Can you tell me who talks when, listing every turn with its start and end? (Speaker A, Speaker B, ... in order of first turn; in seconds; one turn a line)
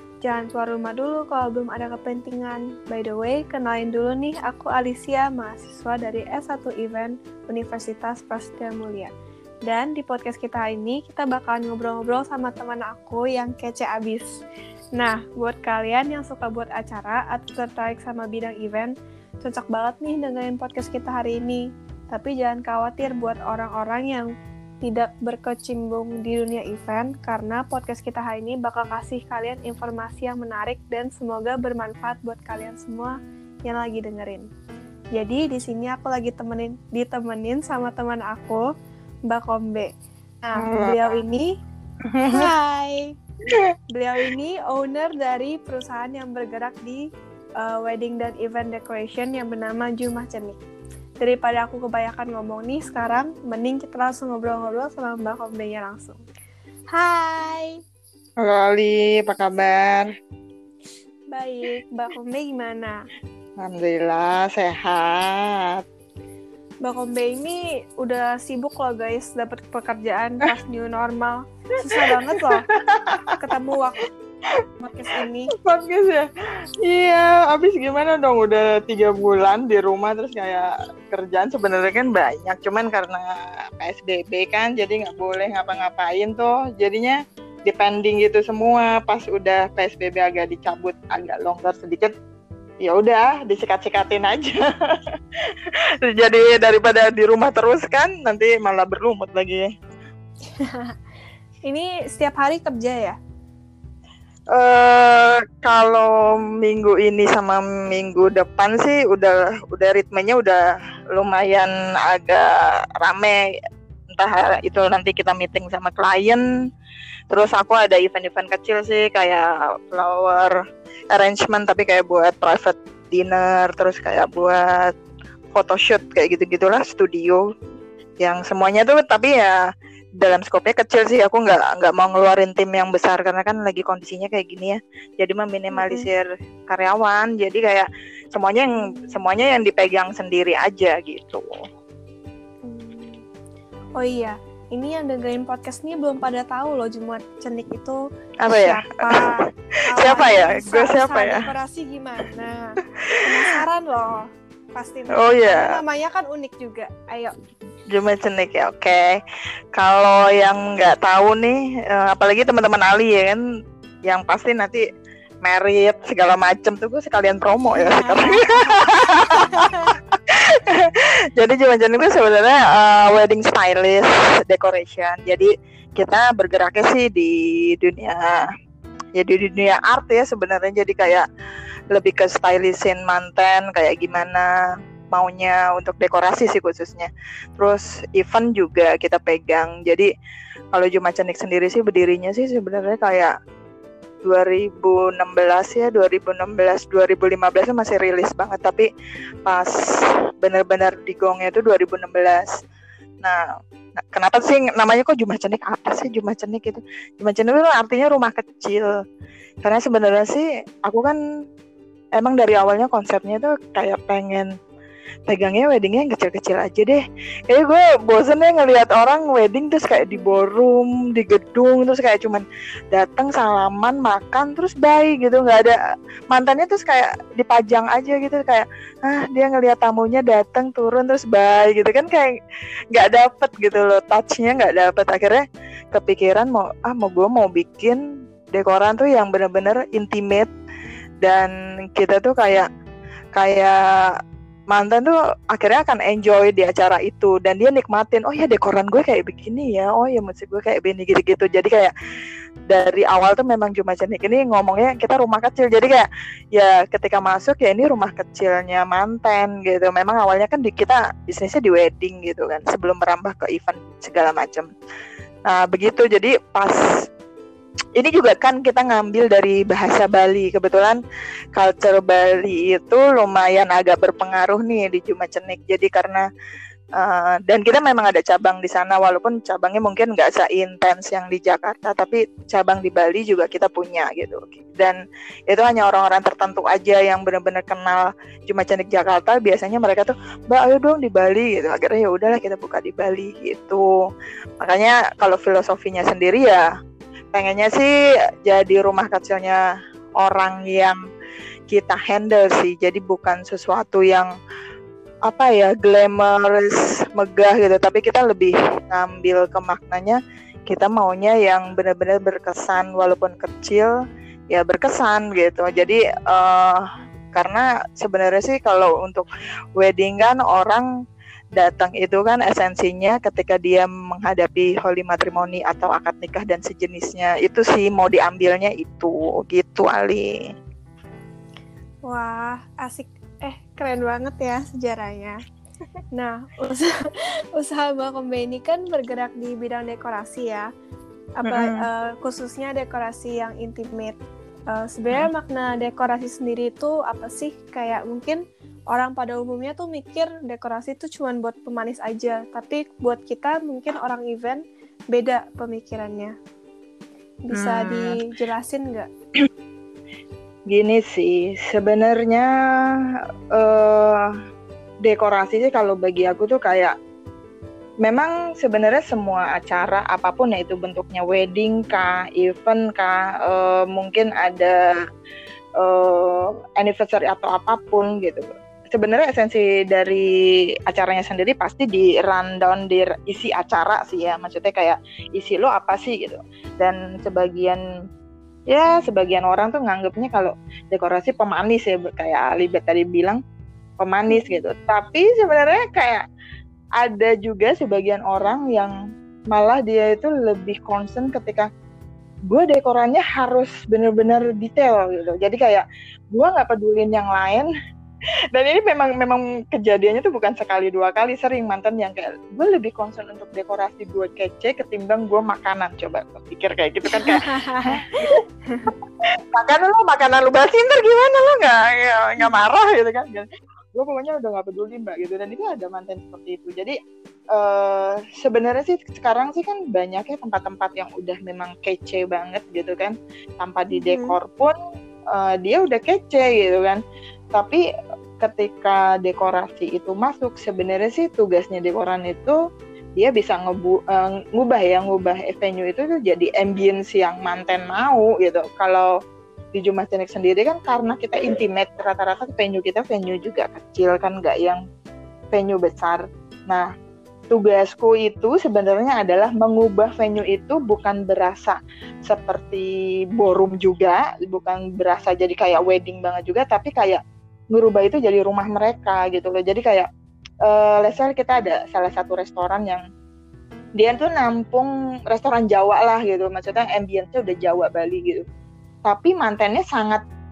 Speaker A: 0.2-9.1
Speaker A: 9.7-14.3
Speaker A: 14.9-24.3
Speaker A: 24.8-34.5
Speaker A: 35.1-38.6
Speaker A: 39.3-39.9
Speaker A: 40.4-41.5
Speaker B: 40.6-41.0
Speaker B: 42.1-42.5
Speaker A: 42.2-43.1
Speaker A: 43.9-47.1
Speaker A: 47.6-50.6
Speaker A: 51.2-56.2
Speaker A: 56.9-57.8
Speaker B: 58.4-60.1
Speaker A: 61.3-63.0
Speaker B: 63.6-65.8
Speaker A: 66.8-72.7
Speaker B: 71.9-73.4
Speaker A: 73.4-74.0
Speaker A: 74.8-75.5
Speaker B: 75.6-76.3
Speaker B: 76.8-92.1
Speaker B: 92.8-94.6
Speaker B: 95.5-99.7
Speaker A: 100.6-100.9
Speaker A: 101.7-103.2
Speaker B: 104.5-110.6
Speaker B: 111.1-113.4
Speaker B: 114.1-116.4
Speaker B: 117.3-120.5
Speaker B: 121.1-124.9
Speaker B: 125.5-127.4
Speaker B: 128.2-129.6
Speaker B: 130.2-141.4
Speaker A: 135.7-136.1
Speaker A: 138.8-139.1
Speaker A: 142.6-143.2
Speaker A: 144.0-157.3
Speaker B: 148.4-149.2
Speaker B: 150.0-151.4
Speaker B: 153.1-153.5
Speaker B: 155.1-155.8
Speaker B: 157.9-159.1
Speaker B: 159.8-163.4
Speaker B: 164.1-164.8
Speaker B: 165.4-178.5
Speaker A: 167.7-169.9
Speaker B: 179.2-181.2
Speaker B: 181.9-184.5
Speaker B: 185.1-190.1
Speaker B: 190.7-193.3
Speaker B: 194.2-198.9
Speaker B: 199.4-199.7
Speaker B: 200.4-202.5
Speaker B: 204.1-208.9
Speaker B: 209.6-211.2
Speaker B: 212.2-214.5
Speaker B: 215.3-225.7
Speaker A: 219.9-220.3
Speaker B: 226.3-232.3
Speaker B: 232.9-235.4
Speaker B: 235.9-240.5
Speaker B: 241.2-242.7
Speaker B: 243.3-244.2
Speaker B: 244.7-251.9
Speaker B: 252.7-256.0
Speaker B: 256.6-264.7
Speaker B: 265.5-266.8
Speaker B: 268.0-271.0
Speaker B: 271.5-276.2
Speaker B: 277.0-285.0
Speaker B: 285.5-293.8
Speaker B: 294.6-296.6
Speaker B: 297.3-297.9
Speaker B: 298.4-299.6
Speaker B: 300.2-301.0
Speaker B: 301.7-304.3
Speaker B: 305.3-313.9
Speaker B: 314.5-319.2
Speaker B: 319.8-320.9
Speaker B: 321.6-330.4
Speaker A: 332.1-335.4
Speaker A: 336.1-336.9
Speaker A: 337.6-340.7
Speaker A: 341.4-344.2
Speaker B: 341.4-341.9
Speaker A: 344.7-356.3
Speaker A: 357.5-359.1
Speaker B: 357.5-358.2
Speaker B: 360.7-362.5
Speaker B: 363.5-364.3
Speaker B: 365.0-366.9
Speaker B: 368.0-374.8
Speaker B: 375.8-380.3
Speaker B: 380.9-387.8
Speaker B: 388.7-393.4
Speaker B: 394.0-396.2
Speaker A: 394.3-394.6
Speaker B: 397.0-398.9
Speaker B: 399.5-401.7
Speaker B: 402.5-407.7
Speaker B: 408.5-418.4
Speaker A: 417.1-418.0
Speaker B: 419.2-426.9
Speaker B: 427.5-434.7
Speaker A: 433.9-434.4
Speaker B: 435.3-437.0
Speaker B: 437.5-437.8
Speaker B: 438.4-442.6
Speaker B: 443.2-449.1
Speaker B: 449.7-454.8
Speaker B: 455.5-456.9
Speaker B: 457.5-467.2
Speaker B: 467.7-470.1
Speaker B: 470.6-473.0
Speaker B: 474.0-478.4
Speaker B: 479.1-480.2